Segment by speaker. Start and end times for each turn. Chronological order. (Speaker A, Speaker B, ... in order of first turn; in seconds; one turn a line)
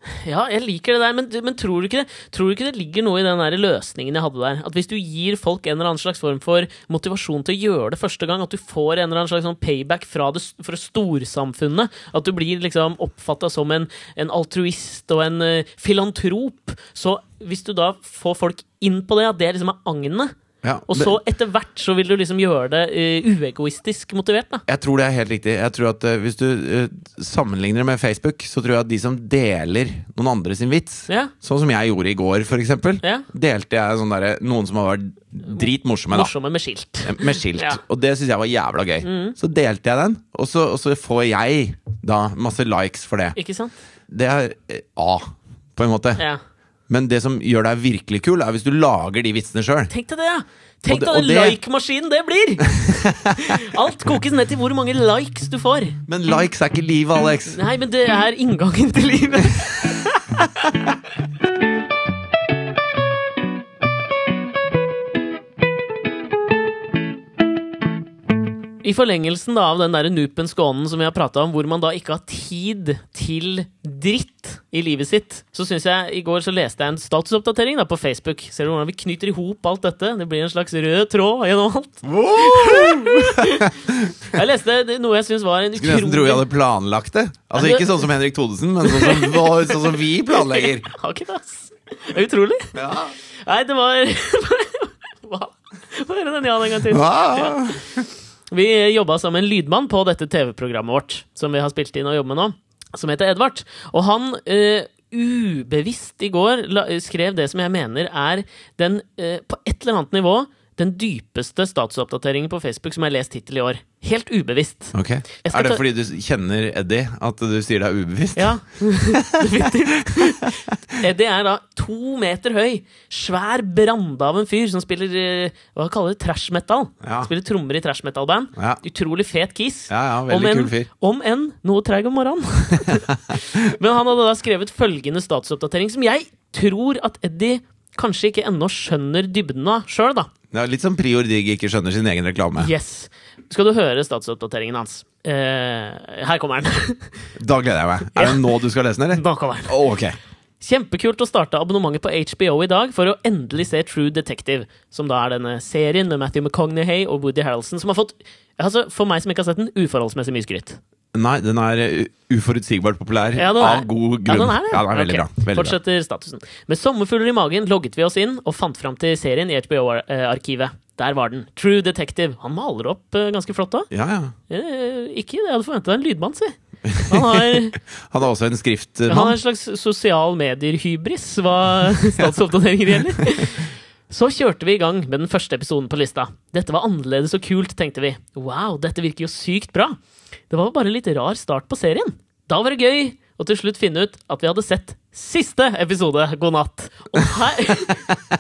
Speaker A: 0.2-20.3
Speaker B: 20.6-21.2
Speaker A: 20.9-24.6
Speaker B: 24.7-36.3
Speaker A: 35.5-37.8
Speaker B: 37.0-43.4
Speaker A: 39.0-39.4
Speaker A: 43.4-43.7
Speaker B: 44.1-46.2
Speaker B: 46.9-49.9
Speaker A: 49.9-56.0
Speaker B: 50.9-51.6
Speaker B: 52.7-53.6
Speaker B: 56.1-57.6
Speaker A: 57.5-60.2
Speaker A: 68.8-83.7
Speaker B: 82.0-84.4
Speaker A: 84.3-86.5
Speaker B: 85.8-90.9
Speaker A: 87.6-88.1
Speaker A: 88.8-92.8
Speaker B: 92.8-93.1
Speaker A: 93.4-97.9
Speaker B: 96.9-98.0
Speaker A: 98.5-115.8
Speaker B: 114.9-120.7
Speaker A: 118.4-140.3
Speaker B: 127.0-127.3
Speaker B: 128.6-128.8
Speaker B: 129.9-130.9
Speaker B: 132.8-133.6
Speaker B: 140.5-142.7
Speaker A: 142.6-147.3
Speaker B: 147.4-150.2
Speaker A: 148.1-149.9
Speaker A: 150.6-160.8
Speaker B: 161.1-165.8
Speaker A: 163.3-173.9
Speaker B: 173.9-174.3
Speaker A: 174.5-177.8
Speaker B: 176.8-179.4
Speaker A: 179.1-190.0
Speaker A: 190.5-198.1